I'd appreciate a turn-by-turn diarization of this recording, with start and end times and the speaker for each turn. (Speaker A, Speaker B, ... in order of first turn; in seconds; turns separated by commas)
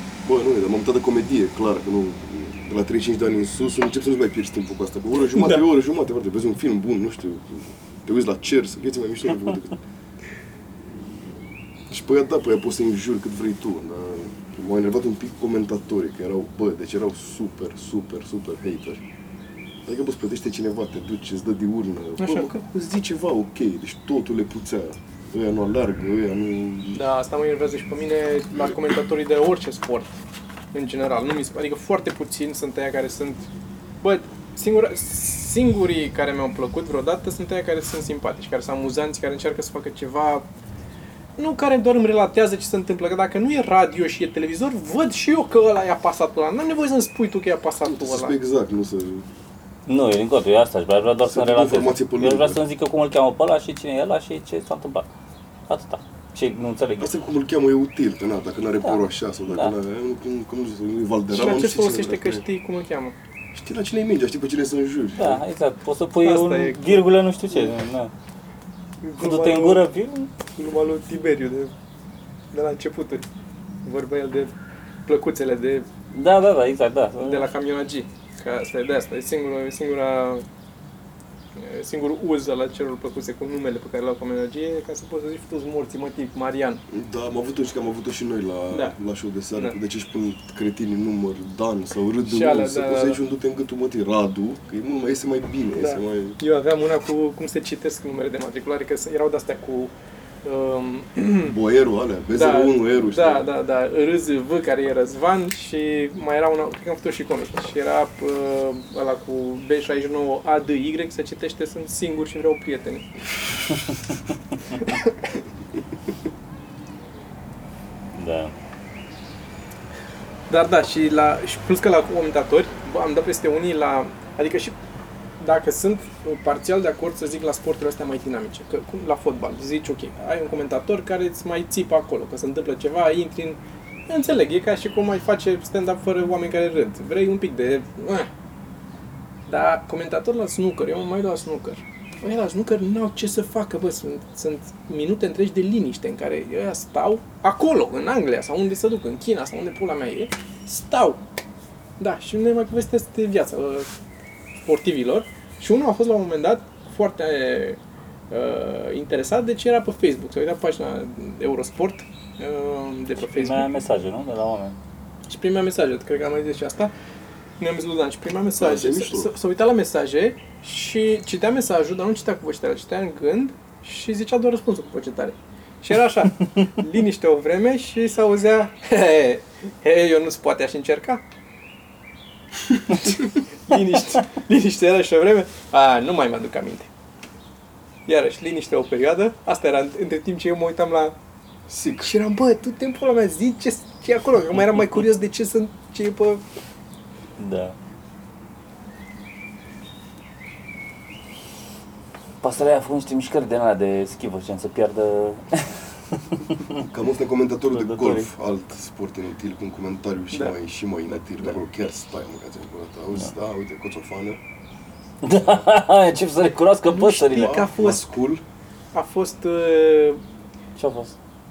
Speaker A: 0.2-9.8, Speaker B: 5.3-5.6, Speaker A: 11.9-19.0, Speaker A: 19.9-27.0, Speaker B: 22.2-22.6, Speaker B: 26.9-30.2, Speaker B: 30.7-33.5, Speaker B: 34.0-40.5, Speaker B: 41.4-48.4, Speaker A: 47.8-49.3, Speaker C: 49.9-55.1, Speaker A: 51.2-52.6, Speaker C: 55.7-57.1, Speaker A: 57.0-62.4, Speaker C: 58.8-59.7, Speaker B: 61.3-63.1, Speaker A: 63.5-65.4, Speaker C: 65.2-68.1, Speaker B: 66.2-67.7, Speaker B: 69.0-69.8, Speaker C: 69.2-70.3, Speaker B: 70.5-71.7, Speaker B: 72.5-73.2, Speaker B: 73.8-74.5, Speaker B: 75.1-75.9, Speaker C: 76.1-77.5, Speaker B: 77.2-80.5, Speaker B: 81.6-86.8, Speaker A: 86.9-96.4, Speaker B: 92.2-93.2, Speaker B: 95.8-99.9, Speaker B: 100.4-101.6, Speaker A: 101.4-103.5, Speaker B: 102.3-113.1, Speaker B: 114.8-115.2, Speaker C: 118.1-118.5, Speaker B: 120.5-124.8, Speaker B: 125.4-138.3, Speaker B: 139.5-151.2, Speaker B: 152.0-153.9, Speaker B: 154.7-157.8, Speaker B: 158.3-163.7, Speaker C: 163.3-164.8, Speaker B: 165.3-166.9, Speaker B: 167.6-181.2, Speaker A: 168.6-169.3, Speaker B: 182.9-186.9, Speaker B: 188.1-191.2, Speaker A: 191.7-192.1, Speaker B: 192.0-196.4, Speaker C: 197.4-197.8, Speaker C: 202.4-206.8, Speaker A: 206.8-214.4, Speaker C: 207.7-208.3, Speaker C: 215.2-217.7, Speaker B: 216.9-218.0, Speaker A: 217.3-218.4, Speaker B: 218.9-220.2, Speaker C: 220.8-221.2